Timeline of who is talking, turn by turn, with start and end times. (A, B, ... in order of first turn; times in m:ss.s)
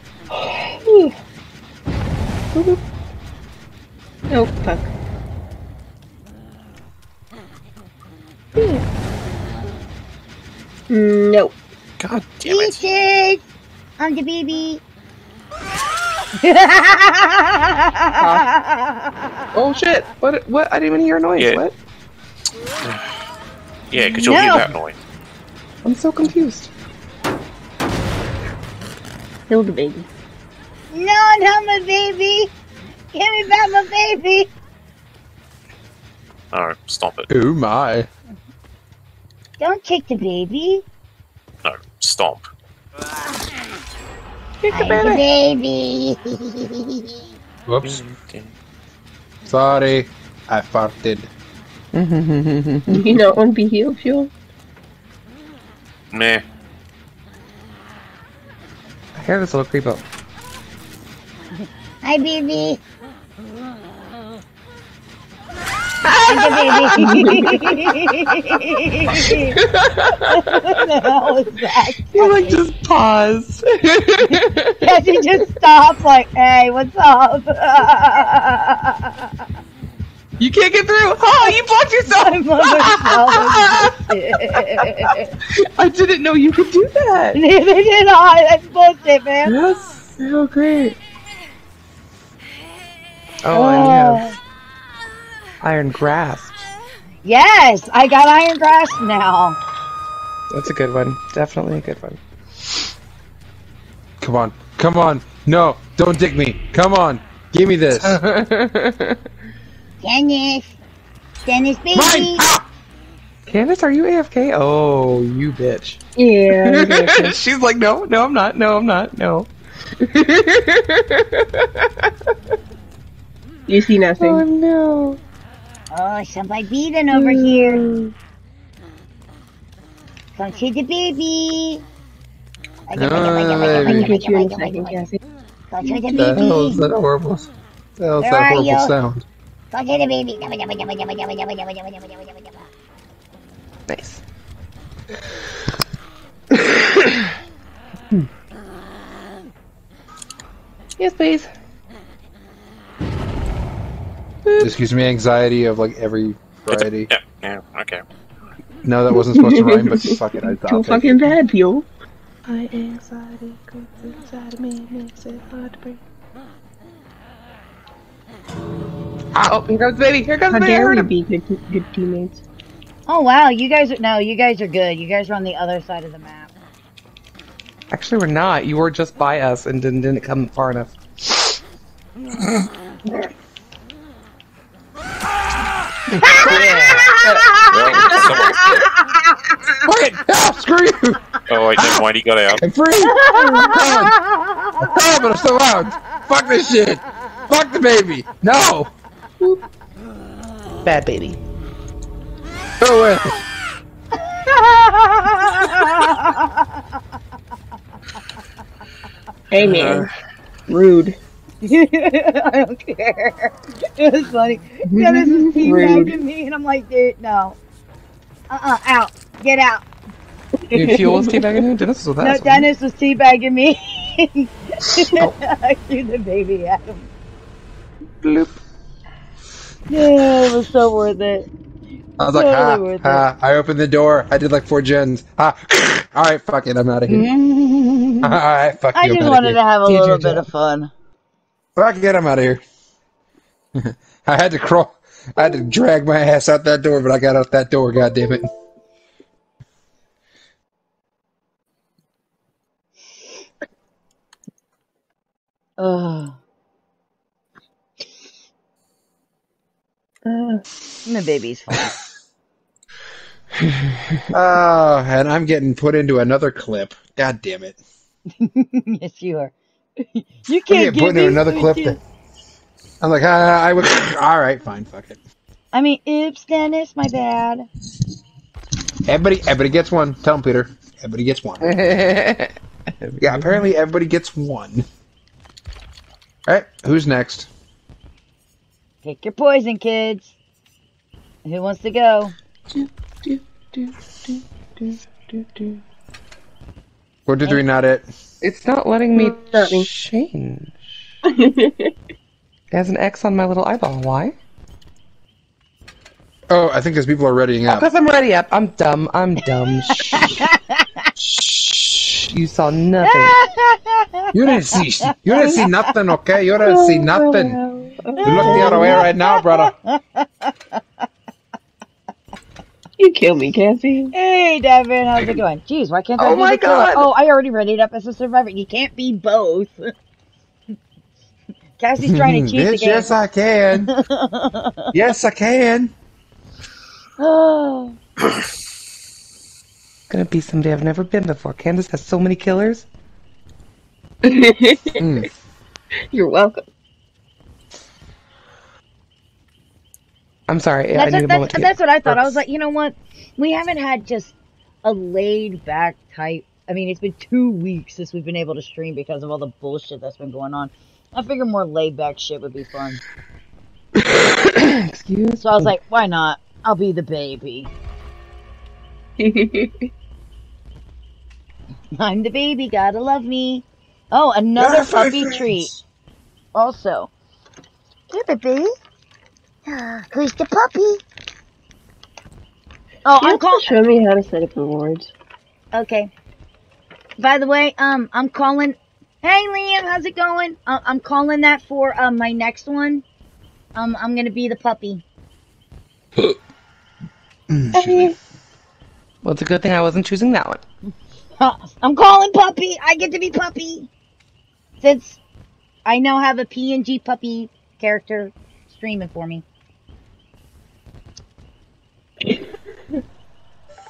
0:00.3-0:01.1 A
0:04.3-0:04.9 A
0:10.9-0:11.5 A
0:12.0-0:12.3 B
0:12.4-0:12.8 C
0:12.4-0:13.4 D
0:14.0-0:14.8 D
0:16.4-0:19.2 D
0:18.2-0:18.5 B
0:19.5-0:21.8 B
0:21.4-0:21.6 C
0:22.8-0:23.1 C
0:23.9-0:25.0 C
0:24.3-0:24.7 D
0:25.8-0:26.7 B
0:29.5-0:30.1 A
0:30.9-0:32.5 D
0:33.1-0:34.5 D
0:36.5-0:37.3 C
0:37.3-0:38.1 E
0:39.6-0:40.8 D
0:41.6-0:42.4 C
0:44.6-0:45.2 A
0:44.7-0:47.1 D
0:47.7-0:48.0 E
0:47.8-0:48.5 C
0:49.4-0:51.3 E
0:51.9-0:53.1 B
0:52.9-0:54.3 A
0:56.1-0:56.4 C
0:59.2-1:00.0 B
1:02.0-1:02.8 D
1:06.0-1:08.1 B
1:06.2-1:09.6 D
1:07.0-1:07.6 A
1:09.1-1:10.8 B
1:10.1-1:12.6 D
1:12.1-1:15.2 B
1:14.3-1:19.3 D
1:20.4-1:27.4 B
1:22.0-1:25.3 D
1:27.3-1:29.6 D
1:29.4-1:31.0 B
1:33.4-1:34.2 B
1:33.5-1:34.3 D
1:35.6-1:36.6 B
1:37.2-1:39.6 D
1:40.5-1:42.2 B
1:44.2-1:48.2 E
1:48.0-1:49.2 B
1:50.0-1:50.8 D
1:51.4-1:52.5 D
1:51.9-1:52.6 E
1:53.5-2:02.4 B
1:56.2-1:57.4 A
2:03.7-2:04.4 A
2:04.2-2:05.2 B
2:05.9-2:07.9 D
2:07.1-2:08.1 A
2:10.4-2:11.8 D
2:12.9-2:15.0 D
2:12.9-2:14.1 E
2:13.5-2:15.2 A
2:15.7-2:16.8 D
2:15.8-2:16.8 A
2:16.2-2:19.2 E
2:18.2-2:18.9 D
2:19.7-2:22.5 D
2:23.9-2:24.2 B
2:26.5-2:27.3 B
2:31.0-2:31.5 B
2:34.4-2:34.7 B
2:34.6-2:37.1 E
2:36.7-2:38.0 C
2:38.8-2:41.3 E
2:39.1-2:41.9 A
2:42.5-2:46.0 B
2:49.4-2:51.1 B
2:50.5-2:52.4 A
2:53.1-2:56.5 D
2:57.9-3:01.5 B
3:06.2-3:07.0 E
3:06.2-3:09.5 D
3:06.2-3:08.2 B
3:07.6-3:08.9 C
3:09.8-3:14.2 E
3:11.5-3:12.6 C
3:13.0-3:14.8 D
3:13.3-3:13.8 A
3:14.8-3:18.9 E
3:20.8-3:21.4 B
3:22.8-3:23.4 E
3:24.2-3:26.7 D
3:29.5-3:30.1 A
3:29.6-3:30.1 C
3:30.7-3:31.2 A
3:31.6-3:37.6 D
3:34.9-3:36.2 A
3:38.5-3:39.8 D
3:40.6-3:41.6 A
3:40.7-3:42.7 B
3:42.2-3:47.1 D
3:45.0-3:45.3 B
3:48.2-3:48.6 B
3:49.9-3:51.5 D
3:52.2-3:57.3 E
3:52.3-3:53.2 D
3:57.1-3:58.4 B
3:58.2-3:59.6 E
3:58.9-4:00.9 D
3:59.8-4:00.4 B
4:01.8-4:02.6 E
4:03.7-4:08.5 E
4:15.8-4:16.3 D
4:20.2-4:20.6 A
4:21.0-4:21.9 D
4:24.3-4:27.8 E
4:28.4-4:32.0 D
4:30.7-4:32.0 E
4:33.0-4:35.2 E
4:35.7-4:37.7 D
4:39.0-4:41.7 E
4:41.6-4:43.6 B
4:43.2-4:44.8 E
4:46.4-4:47.5 E
4:49.0-4:50.3 D
4:51.4-4:52.3 D
4:52.7-4:55.8 B
4:57.2-4:58.1 E
4:58.4-5:01.0 B
4:59.1-4:59.9 A
5:01.2-5:01.9 A
5:02.7-5:04.4 B
5:06.5-5:07.9 E
5:07.7-5:10.4 B
5:09.9-5:10.4 E
5:10.2-5:10.6 D
5:11.2-5:12.3 E
5:12.3-5:13.4 B
5:13.0-5:15.8 D
5:14.3-5:17.6 E
5:16.6-5:19.1 A
5:18.2-5:20.8 D
5:18.2-5:19.7 E
5:23.0-5:24.1 A
5:24.1-5:29.9 D
5:25.2-5:25.4 E
5:26.2-5:27.1 B
5:31.8-5:33.1 D
5:32.0-5:33.9 E
5:33.8-5:34.8 D
5:34.9-5:35.9 E
5:37.2-5:38.0 D
5:40.1-5:42.9 B
5:44.2-5:45.2 A
5:45.0-5:45.3 E
5:46.1-5:46.6 A
5:50.5-5:52.3 B
5:50.9-6:03.0 D
6:04.0-6:05.7 B
6:05.4-6:07.7 D
6:09.2-6:09.9 A
6:12.0-6:15.7 D
6:14.6-6:15.8 E
6:16.5-6:17.1 D
6:18.1-6:18.7 D
6:19.6-6:21.0 D
6:23.0-6:23.8 D
6:23.2-6:25.1 A
6:25.7-6:26.1 D
6:27.2-6:33.0 D
6:33.7-6:35.0 D
6:37.5-6:38.1 E
6:37.8-6:38.1 A
6:39.2-6:40.6 B
6:41.4-6:43.9 D
6:44.8-6:45.2 D
6:45.8-6:49.4 D